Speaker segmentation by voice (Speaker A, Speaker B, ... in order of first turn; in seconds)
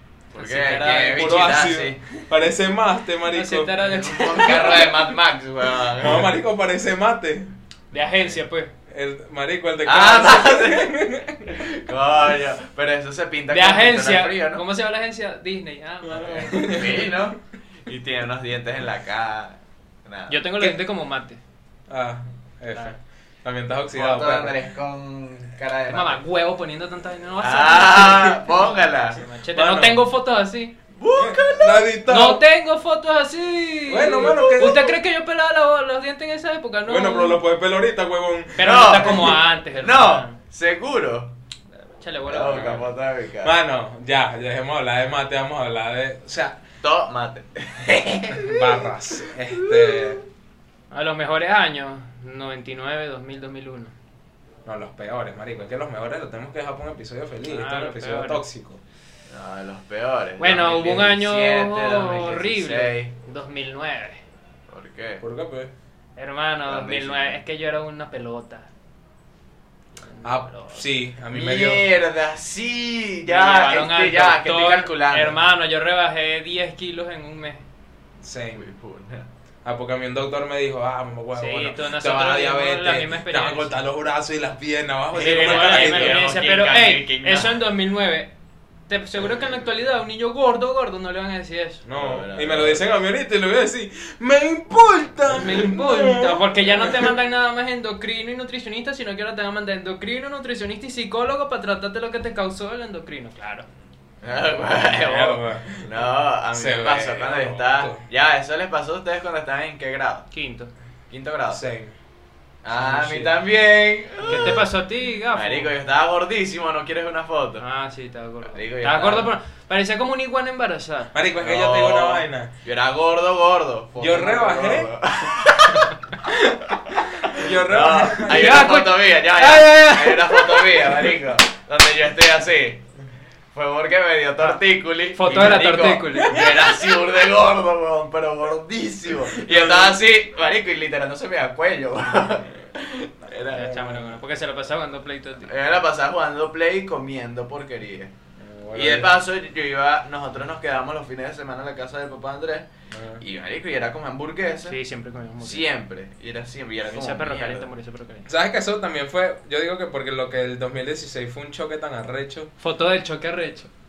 Speaker A: 0.3-2.1, 3.8-6.3, 8.0-8.4, 9.8-14.7, 16.1-20.5, 23.9-26.2, 27.4-29.2, 30.9-32.0, 34.1-35.0, 38.6-41.3, 42.3-43.6, 46.8-50.2, 59.3-63.1, 64.7-65.2, 66.7-67.4, 71.3-75.4, 78.5-79.3, 85.2-87.7, 89.2-89.6, 91.9-92.8, 104.2-110.3, 111.1-111.6, 112.6-114.7, 115.3-117.7, 118.4-119.3, 121.4-125.9, 127.0-132.8, 133.5-143.7, 145.5-148.1, 148.7-154.8, 155.4-157.7
Speaker B: 0.4-1.2, 3.3-5.2, 7.9-8.7, 13.5-16.9, 20.3-21.4, 25.9-30.7, 32.1-37.4, 38.6-40.4, 41.8-42.9, 50.9-53.9, 57.5-58.4, 60.4-64.2, 66.2-68.7, 70.0-70.9, 73.3-77.6, 81.3-83.8, 85.1-88.3, 88.9-91.8, 95.3-103.7, 110.3-110.7, 114.2-115.7, 117.6-121.2, 128.2-131.2, 135.1-136.5, 143.5-145.5, 154.7-155.7, 156.9-158.3, 162.6-163.7
Speaker C: 0.7-3.8, 6.0-7.5, 8.9-11.6, 16.1-17.3, 21.9-24.6, 29.5-30.1, 31.2-32.5, 33.9-34.9, 36.9-39.4, 42.4-42.9, 43.4-46.6, 48.4-50.2, 54.6-58.8, 65.2-65.7, 70.2-71.9, 78.2-78.7, 79.7-86.3, 91.8-97.1, 104.6-108.0, 111.5-112.0, 112.7-113.4, 121.1-122.5, 124.0-124.9, 126.3-126.5, 127.3-128.7, 135.3-135.6, 136.2-136.8, 139.2-140.0, 143.5-144.2, 148.4-149.2, 152.9-153.2, 158.3-162.5